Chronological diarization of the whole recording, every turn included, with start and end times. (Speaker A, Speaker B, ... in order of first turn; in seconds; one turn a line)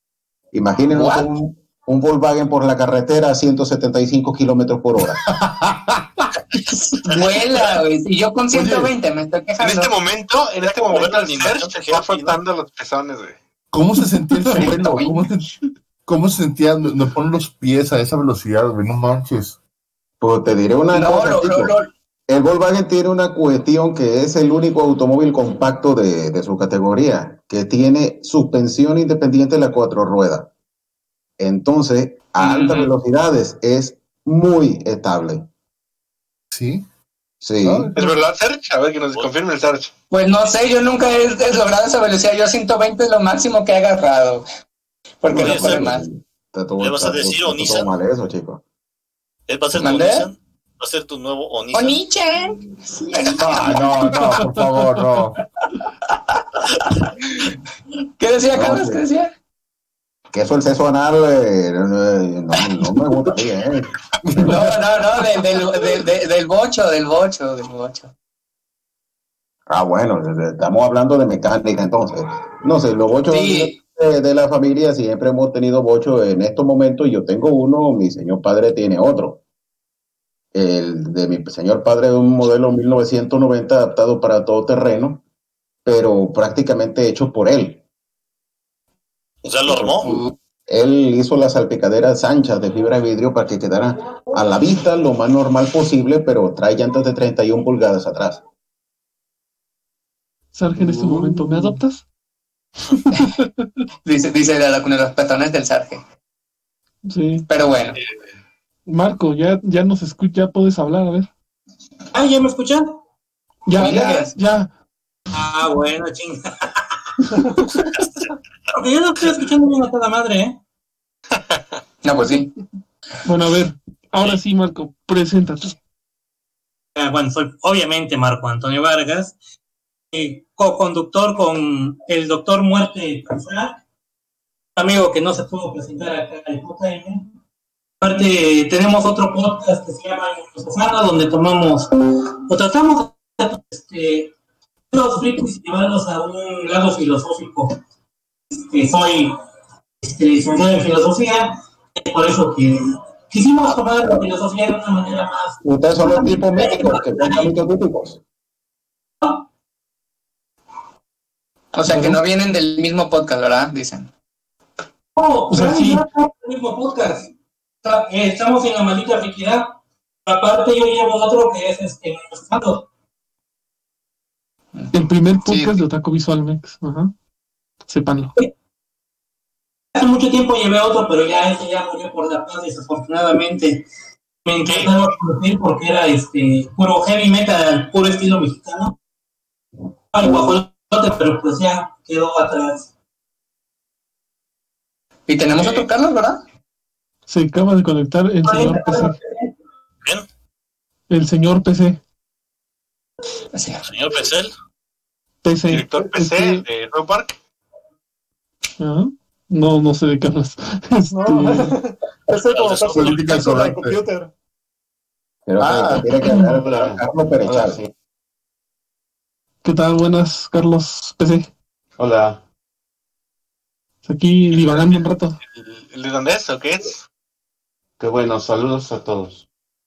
Speaker A: 0.5-5.2
Speaker B: 0.9-1.3
Speaker C: 5.3-6.2
Speaker B: 7.0-9.9
Speaker C: 8.5-8.9
Speaker D: 9.6-13.4
Speaker E: 10.7-12.4
Speaker C: 13.7-15.5
Speaker B: 14.6-15.3
Speaker C: 16.1-19.6
Speaker A: 20.2-21.7
Speaker B: 20.9-21.9
Speaker A: 22.3-30.5
Speaker A: 31.4-35.5
Speaker B: 32.4-32.9
Speaker C: 36.5-36.9
Speaker A: 37.4-37.9
Speaker C: 37.6-38.2
Speaker D: 38.0-39.9
Speaker B: 40.1-44.5
Speaker B: 45.2-46.1
Speaker A: 45.3-48.6
Speaker E: 45.4-45.9
Speaker E: 46.8-47.9
Speaker E: 49.5-52.0
Speaker B: 49.8-50.3
Speaker B: 51.7-54.4
Speaker C: 53.4-55.4
Speaker B: 58.2-59.3
Speaker A: 58.6-59.0
Speaker A: 60.3-63.9
Speaker B: 62.6-62.8
Speaker B: 64.3-68.1
Speaker A: 69.7-79.4
Speaker B: 73.3-73.8
Speaker A: 80.5-85.2
Speaker A: 85.9-87.8
Speaker E: 89.4-90.2
Speaker B: 90.0-90.3
Speaker A: 90.7-98.4
Speaker F: 100.5-102.0
Speaker G: 100.8-101.2
Speaker F: 103.2-103.7
Speaker B: 104.0-106.0
Speaker F: 107.1-107.5
Speaker B: 107.5-108.0
Speaker F: 108.9-111.3
Speaker H: 112.1-113.0
Speaker F: 113.7-114.7
Speaker B: 113.8-114.3
Speaker H: 115.3-117.0
Speaker H: 118.7-120.6
Speaker B: 122.0-122.5
Speaker F: 123.2-125.8
Speaker H: 127.0-129.4
Speaker H: 130.1-133.8
Speaker H: 134.8-137.3
Speaker H: 138.0-141.9
Speaker H: 142.5-144.3
Speaker H: 144.9-147.8
Speaker H: 148.6-149.3
Speaker H: 150.0-157.5
Speaker A: 155.6-158.2
Speaker B: 161.7-164.1
Speaker F: 161.9-162.2
Speaker H: 165.2-167.3
Speaker F: 165.5-166.0
Speaker H: 167.8-169.7
Speaker H: 170.3-172.9
Speaker B: 174.8-175.8
Speaker F: 174.9-177.1
Speaker F: 177.9-178.3
Speaker H: 179.9-183.9
Speaker H: 184.4-188.9
Speaker D: 184.7-184.9
Speaker H: 190.1-192.9
Speaker B: 195.3-196.4
Speaker F: 197.3-199.2
Speaker H: 198.4-199.5
Speaker F: 201.1-202.0
Speaker B: 203.5-203.9
Speaker E: 203.9-204.5
Speaker F: 205.4-206.6
Speaker D: 205.7-207.4
Speaker F: 208.8-211.7
Speaker I: 211.1-214.3
Speaker E: 212.5-213.2
Speaker C: 212.8-214.0
Speaker A: 215.5-217.9
Speaker C: 215.6-216.1
Speaker F: 216.2-216.6
Speaker G: 216.4-217.8
Speaker F: 219.6-221.5
Speaker G: 222.0-222.4
Speaker F: 224.1-225.4
Speaker D: 225.6-227.0
Speaker G: 228.0-229.4